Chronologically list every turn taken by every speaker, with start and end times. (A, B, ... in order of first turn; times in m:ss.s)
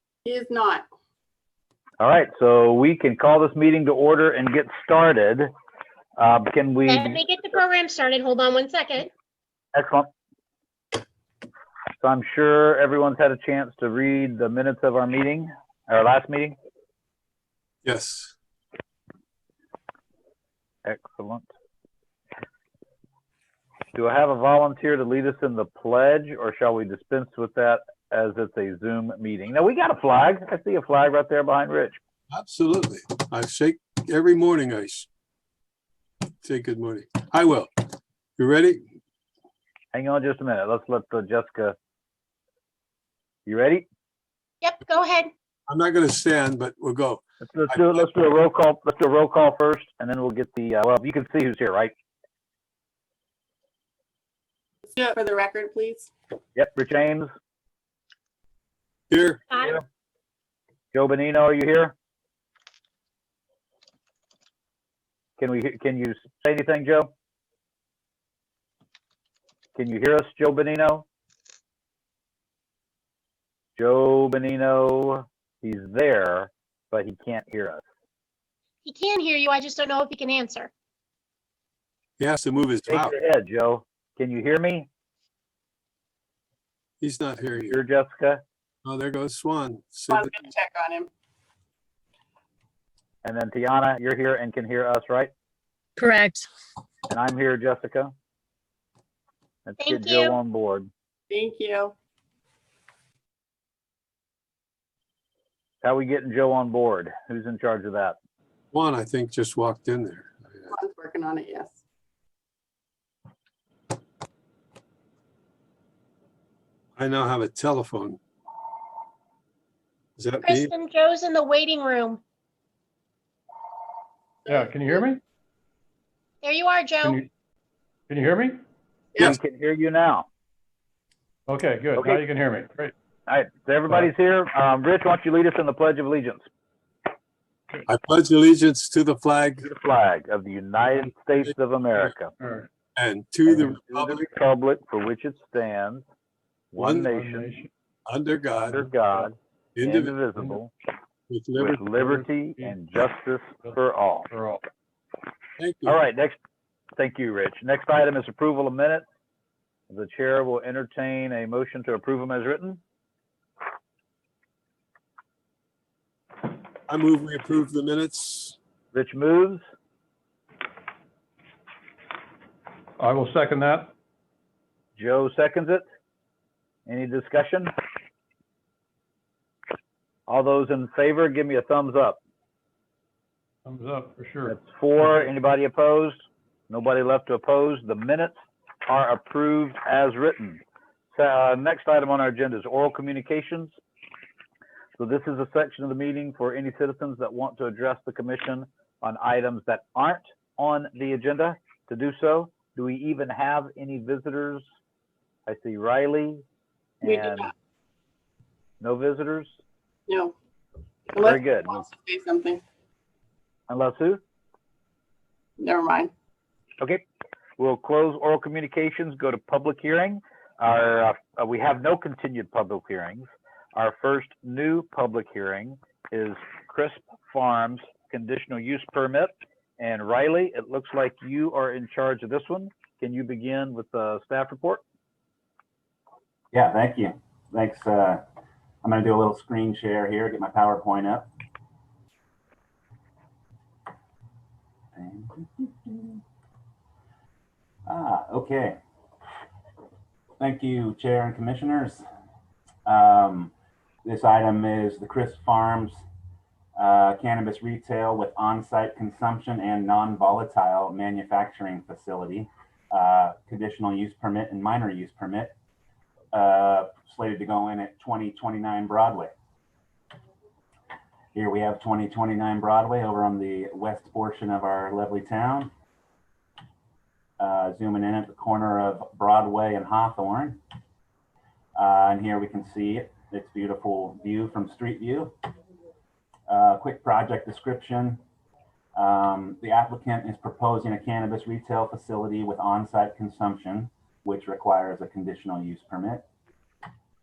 0:00.2-0:00.9 A
0:02.0-0:05.5 B
0:06.2-0:07.2 B
0:06.9-0:09.1 C
0:09.7-0:10.1 B
0:12.0-0:16.6 B
0:17.8-0:18.3 D
0:20.8-0:21.5 B
0:24.0-0:32.0 B
0:32.3-0:35.1 D
0:36.4-0:37.8 D
0:38.4-0:38.8 D
0:39.9-0:41.8 B
0:43.5-0:43.9 B
0:44.6-0:45.3 C
0:45.7-0:48.1 D
0:47.4-0:51.9 B
0:54.9-0:56.1 A
0:56.6-0:57.3 B
0:59.1-0:59.7 D
1:00.9-1:01.9 B
1:05.4-1:07.1 B
1:09.8-1:11.0 B
1:13.8-1:17.8 B
1:18.8-1:20.7 C
1:22.2-1:23.2 D
1:22.9-1:24.9 B
1:27.0-1:27.8 D
1:27.7-1:28.4 B
1:28.8-1:30.3 D
1:30.1-1:31.1 A
1:33.2-1:35.3 B
1:36.0-1:36.4 C
1:37.1-1:38.1 B
1:39.7-1:40.9 B
1:39.8-1:40.4 C
1:41.3-1:42.0 A
1:45.8-1:48.2 B
1:48.7-1:50.7 D
1:50.7-1:51.8 A
1:57.0-1:58.2 D
2:00.2-2:00.7 D
2:00.4-2:02.2 C
2:04.4-2:05.0 A
2:04.5-2:05.2 E
2:06.4-2:07.2 C
2:07.0-2:07.3 E
2:08.1-2:08.6 E
2:09.2-2:10.3 B
2:11.5-2:12.9 E
2:12.0-2:12.2 B
2:13.3-2:16.5 B
2:17.9-2:19.7 D
2:19.6-2:22.3 B
2:22.4-2:22.7 E
2:23.0-2:24.3 D
2:23.5-2:26.0 B
2:26.7-2:27.6 B
2:26.8-2:27.7 E
2:26.8-2:27.1 D
2:28.1-2:28.8 D
2:28.6-2:30.7 B
2:28.7-2:29.3 E
2:29.8-2:30.3 D
2:31.3-2:31.9 D
2:31.6-2:34.3 B
2:31.9-2:32.8 E
2:34.3-2:34.6 E
2:35.6-2:36.0 D
2:35.9-2:36.4 B
2:37.0-2:39.0 B
2:39.9-2:42.8 B
2:46.9-2:48.6 D
2:48.9-2:49.6 B
2:53.0-2:53.9 E
2:55.0-2:55.8 B
2:56.9-2:57.7 B
3:00.3-3:02.2 B
3:03.6-3:05.3 E
3:04.5-3:10.6 B
3:11.1-3:13.8 B
3:15.0-3:24.6 B
3:25.5-3:26.4 B
3:27.0-3:27.5 B
3:27.0-3:27.5 A
3:28.8-3:29.6 B
3:30.1-3:30.4 A
3:31.1-3:32.6 A
3:31.2-3:31.8 B
3:33.7-3:34.2 B
3:35.6-3:36.1 A
3:37.6-3:54.8 B
3:56.5-3:58.2 F
3:58.8-4:01.3 F
4:05.0-4:06.2 F
4:07.9-4:08.8 F
4:10.4-4:12.0 F
4:12.9-4:13.5 F
4:14.0-4:16.0 F
4:16.8-4:25.6 F
4:26.3-4:29.3 F
4:31.3-4:35.7 F
4:37.4-4:40.6 F
4:41.8-4:45.4 F
4:46.5-4:48.2 F
4:49.0-4:56.2 F